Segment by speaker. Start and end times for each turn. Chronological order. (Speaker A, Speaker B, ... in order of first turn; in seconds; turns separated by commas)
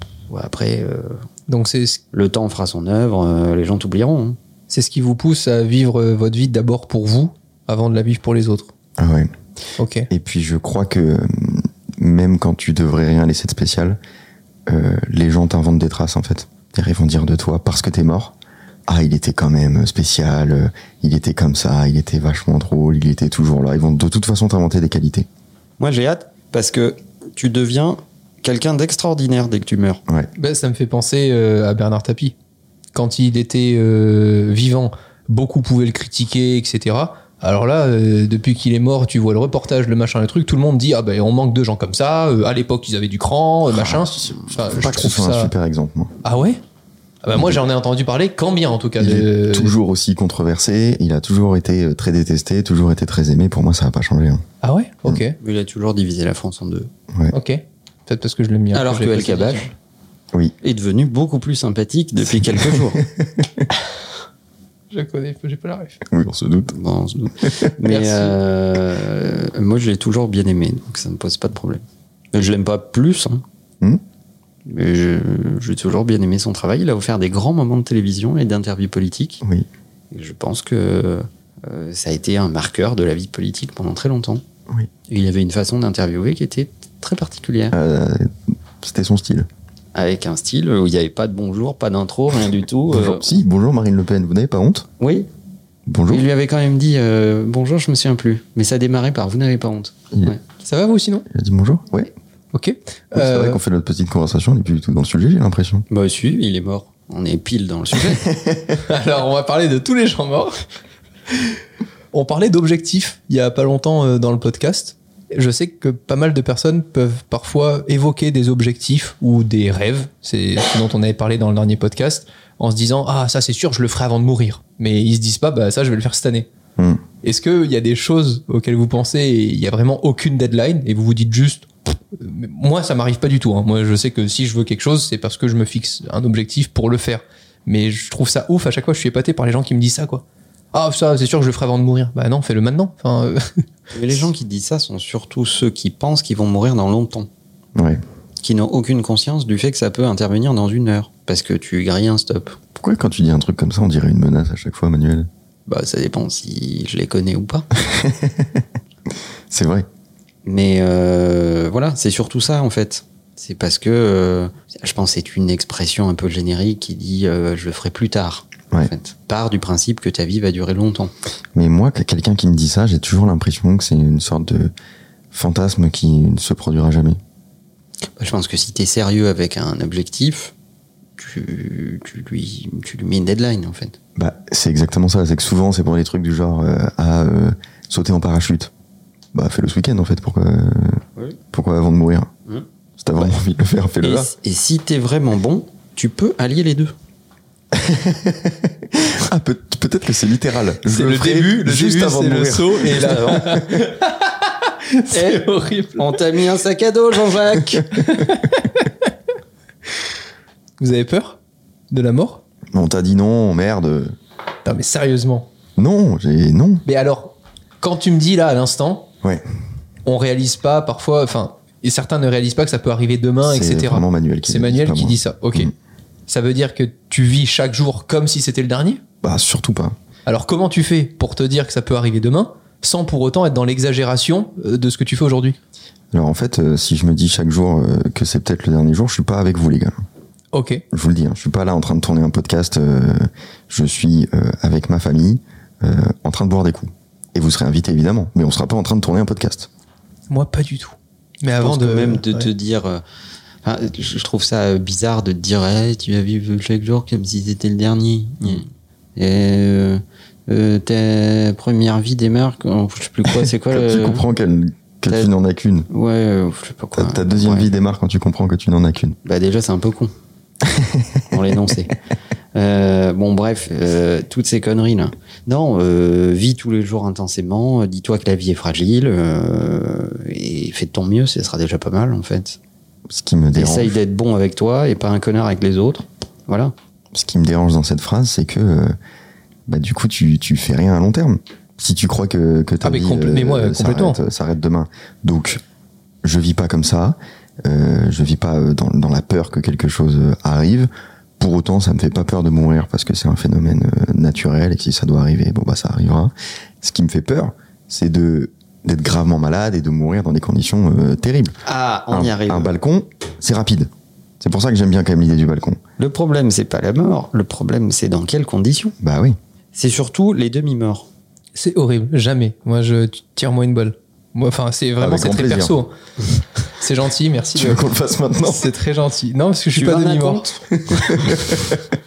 Speaker A: 0.3-1.2, Speaker B: 1.5-2.0, Speaker A: 2.1-4.4, Speaker B: 4.7-8.7, Speaker C: 9.0-9.3, Speaker B: 9.8-10.1, Speaker C: 10.1-14.0, Speaker C: 14.7-18.4, Speaker C: 18.9-25.3, Speaker A: 25.8-30.0, Speaker B: 30.4-32.4, Speaker B: 32.9-45.5, Speaker C: 43.7-46.1, Speaker B: 46.2-46.6, Speaker B: 47.2-49.8, Speaker C: 49.0-54.4, Speaker B: 54.6-55.4, Speaker A: 55.4-56.9, Speaker B: 57.3-59.7, Speaker A: 58.7-59.7, Speaker A: 60.6-63.0, Speaker C: 62.3-63.7, Speaker B: 64.9-66.0, Speaker C: 66.1-66.7, Speaker A: 66.7-71.8, Speaker C: 67.4-67.7, Speaker B: 67.9-68.4, Speaker A: 72.3-73.4, Speaker A: 74.7-79.4, Speaker A: 80.1-84.4, Speaker A: 85.1-87.8, Speaker C: 87.7-89.5, Speaker A: 90.0-93.3, Speaker C: 92.9-94.9, Speaker A: 95.0-95.3, Speaker C: 95.9-96.3, Speaker A: 96.1-100.4, Speaker B: 100.6-101.3, Speaker C: 101.3-102.1, Speaker B: 102.5-103.6, Speaker C: 103.1-105.8, Speaker A: 105.9-108.3, Speaker C: 108.3-108.8, Speaker B: 108.8-110.6, Speaker B: 112.1-126.5, Speaker B: 127.2-143.7, Speaker A: 143.9-147.3, Speaker C: 147.8-148.0, Speaker A: 148.4-152.6, Speaker C: 152.8-155.3, Speaker A: 155.7-157.7, Speaker C: 157.8-158.7, Speaker C: 159.5-159.9, Speaker A: 160.5-171.1, Speaker C: 171.6-174.7, Speaker C: 175.3-177.2, Speaker A: 178.2-180.5, Speaker A: 181.2-184.0, Speaker C: 184.2-188.7, Speaker C: 189.3-192.3, Speaker C: 193.0-194.3, Speaker A: 194.0-196.9, Speaker C: 197.7-203.7, Speaker B: 200.8-206.2, Speaker A: 202.9-203.6, Speaker A: 205.1-205.4, Speaker A: 206.0-207.9, Speaker B: 207.9-209.1, Speaker B: 210.8-211.4, Speaker B: 211.9-212.4, Speaker C: 212.7-214.2, Speaker B: 214.7-215.5, Speaker C: 215.8-216.8, Speaker B: 216.8-219.1, Speaker B: 220.1-225.7, Speaker C: 223.4-225.7, Speaker B: 226.3-229.0, Speaker C: 229.2-229.9, Speaker B: 230.3-235.6, Speaker C: 236.1-240.0, Speaker B: 240.5-240.8, Speaker C: 240.9-249.7, Speaker B: 250.3-252.5, Speaker A: 251.6-253.0, Speaker A: 253.6-264.2, Speaker C: 263.7-265.9, Speaker A: 265.9-267.7, Speaker C: 266.9-269.2, Speaker A: 269.2-270.1, Speaker C: 270.6-271.4, Speaker A: 271.3-271.9, Speaker A: 272.6-282.6, Speaker C: 283.1-284.0, Speaker A: 283.5-286.7, Speaker C: 287.1-288.9, Speaker C: 289.7-295.6, Speaker B: 292.8-294.2, Speaker C: 296.2-311.6, Speaker A: 311.7-312.7, Speaker C: 312.1-313.9, Speaker C: 314.4-315.8, Speaker A: 316.0-318.9, Speaker C: 319.0-319.4, Speaker A: 319.8-321.1, Speaker B: 321.6-325.9, Speaker C: 325.0-325.8, Speaker B: 326.7-327.8, Speaker C: 327.6-328.7, Speaker B: 328.4-330.5, Speaker A: 329.8-331.4, Speaker C: 330.9-331.8